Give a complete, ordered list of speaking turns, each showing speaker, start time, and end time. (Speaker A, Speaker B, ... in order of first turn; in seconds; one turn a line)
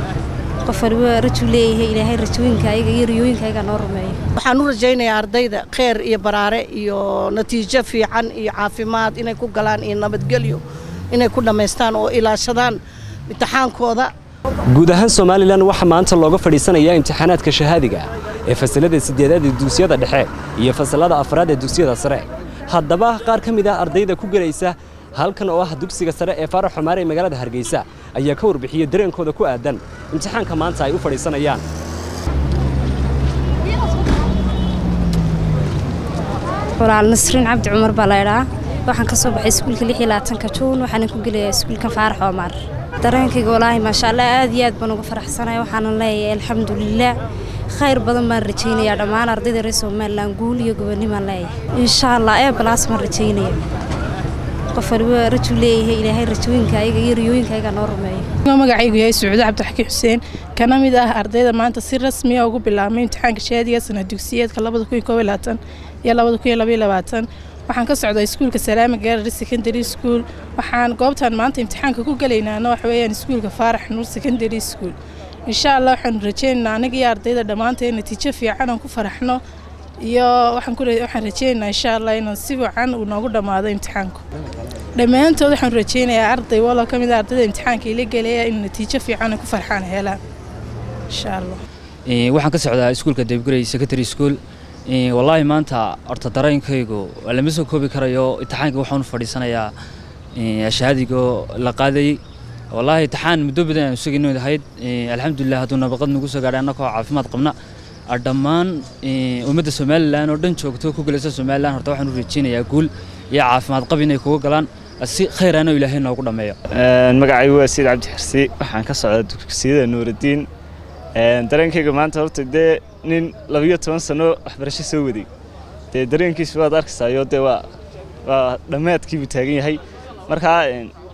Speaker A: 0.7-4.2
Speaker B: 4.4-10.6
Speaker B: 11.1-12.8
Speaker B: 13.3-14.1
Speaker C: 14.7-31.6
Speaker A: 36.8-47.1
Speaker A: 47.7-53.6
Speaker A: 54.7-58.3
Speaker D: 58.5-75.0
Speaker D: 75.5-79.4
Speaker D: 80.0-84.2
Speaker D: 84.9-90.2
Speaker D: 91.1-91.6
Speaker E: 92.1-94.4
Speaker E: 94.9-99.7
Speaker E: 100.4-102.2
Speaker E: 102.7-107.5
Speaker E: 108.1-116.6
Speaker F: 116.7-120.5
Speaker F: 121.2-125.3
Speaker F: 125.9-127.6
Speaker F: 128.2-130.9